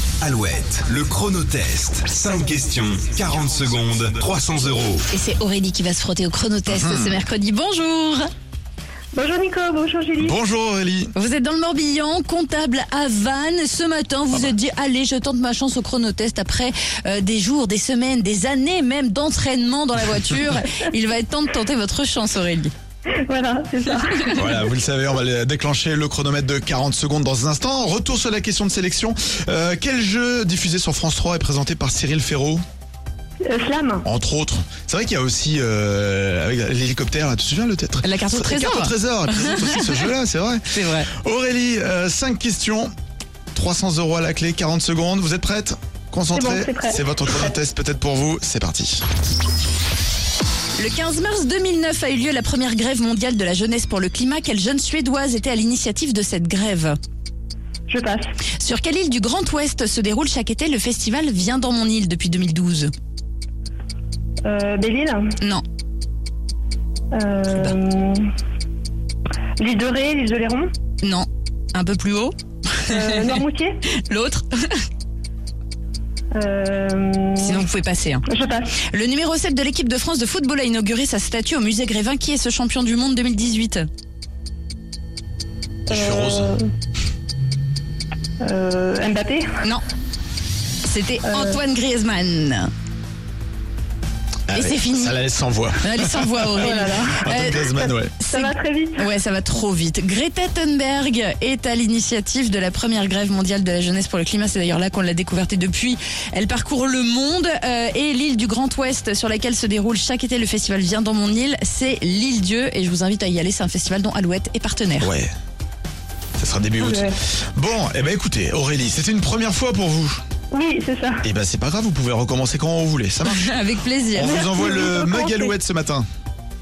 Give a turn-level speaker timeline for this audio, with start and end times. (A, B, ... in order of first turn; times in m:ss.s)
0:00.2-0:05.0 A
0:05.1-0:08.2 B
0:06.7-0:07.2 C
0:09.1-0:10.4 D
0:10.2-0:11.1 C
0:11.1-0:22.7 B
0:23.2-0:24.5 D
0:24.3-0:32.6 C
0:33.4-0:34.0 D
0:34.0-0:42.9 C
0:38.0-0:40.0 B
0:40.7-0:41.1 B
0:43.5-0:49.0 C
0:46.3-0:47.5 D
0:50.8-0:57.0 B
0:57.9-0:58.2 D
0:58.6-1:02.9 B
1:04.4-1:05.3 D
1:07.1-1:08.3 D
1:09.6-1:10.7 D
1:11.0-1:12.3 B
1:12.8-1:14.7 B
1:12.9-1:13.8 D
1:16.3-1:17.6 D
1:17.4-1:18.2 B
1:18.3-1:18.8 D
1:18.9-1:23.8 B
1:25.9-1:26.6 D
1:25.9-1:26.5 C
1:28.4-1:29.5 D
1:30.8-1:32.7 B
1:31.2-1:31.6 D
1:34.5-1:38.1 C
1:34.5-1:35.2 B
1:35.8-1:55.1 B
1:36.6-1:37.2 D
1:38.3-1:39.1 D
1:55.0-1:55.3 C
1:56.4-2:00.2 C
1:56.8-1:57.2 D
2:00.5-2:01.3 D
2:01.2-2:03.6 C
2:03.3-2:04.4 B
2:04.1-2:06.0 C
2:04.2-2:05.5 D